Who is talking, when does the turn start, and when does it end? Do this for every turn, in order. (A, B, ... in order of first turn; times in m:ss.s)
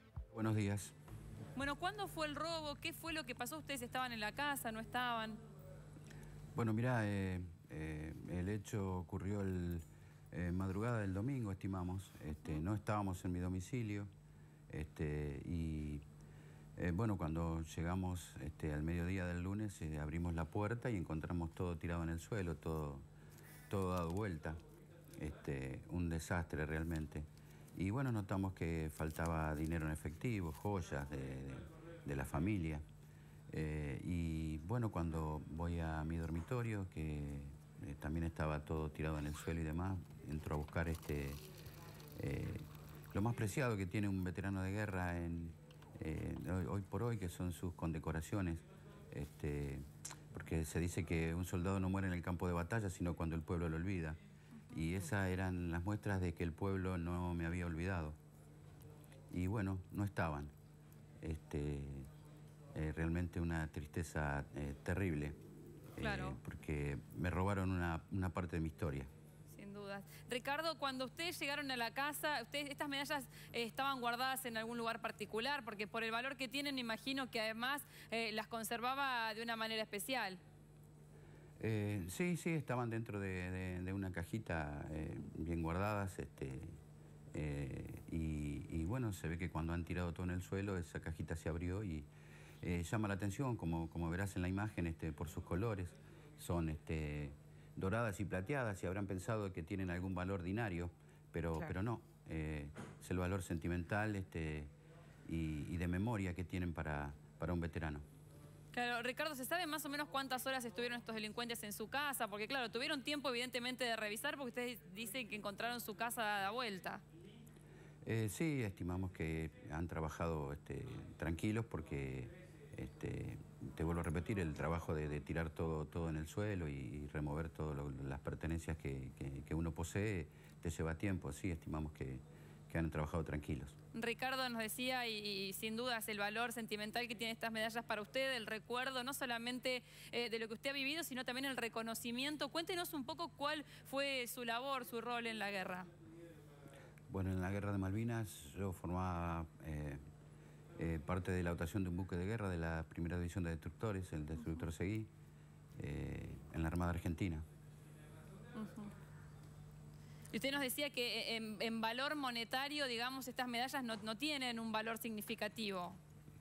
0:00.3-0:00.9 A
0:01.5-0:05.4 B
0:06.5-0:14.1 A
0:14.7-0:16.0 A
0:16.8-0:23.0 A
0:23.7-0:24.6 A
0:25.2-0:32.8 A
0:33.5-0:41.4 A
0:42.2-0:54.2 A
0:54.7-0:58.2 A
0:59.3-1:00.5 A
1:01.2-1:02.1 A
1:02.7-1:05.4 A
1:05.9-1:09.1 A
1:06.0-1:06.4 B
1:09.5-1:20.4 B
1:21.6-1:26.7 A
1:27.3-1:32.1 A
1:32.6-1:44.7 A
1:45.3-1:48.0 A
1:48.7-1:57.0 B
1:58.0-2:13.7 A
2:13.9-2:25.9 B
2:27.1-2:30.0 A
2:30.8-2:35.1 A
2:35.8-2:37.4 A
2:38.5-2:38.9 B
2:40.3-2:46.0 B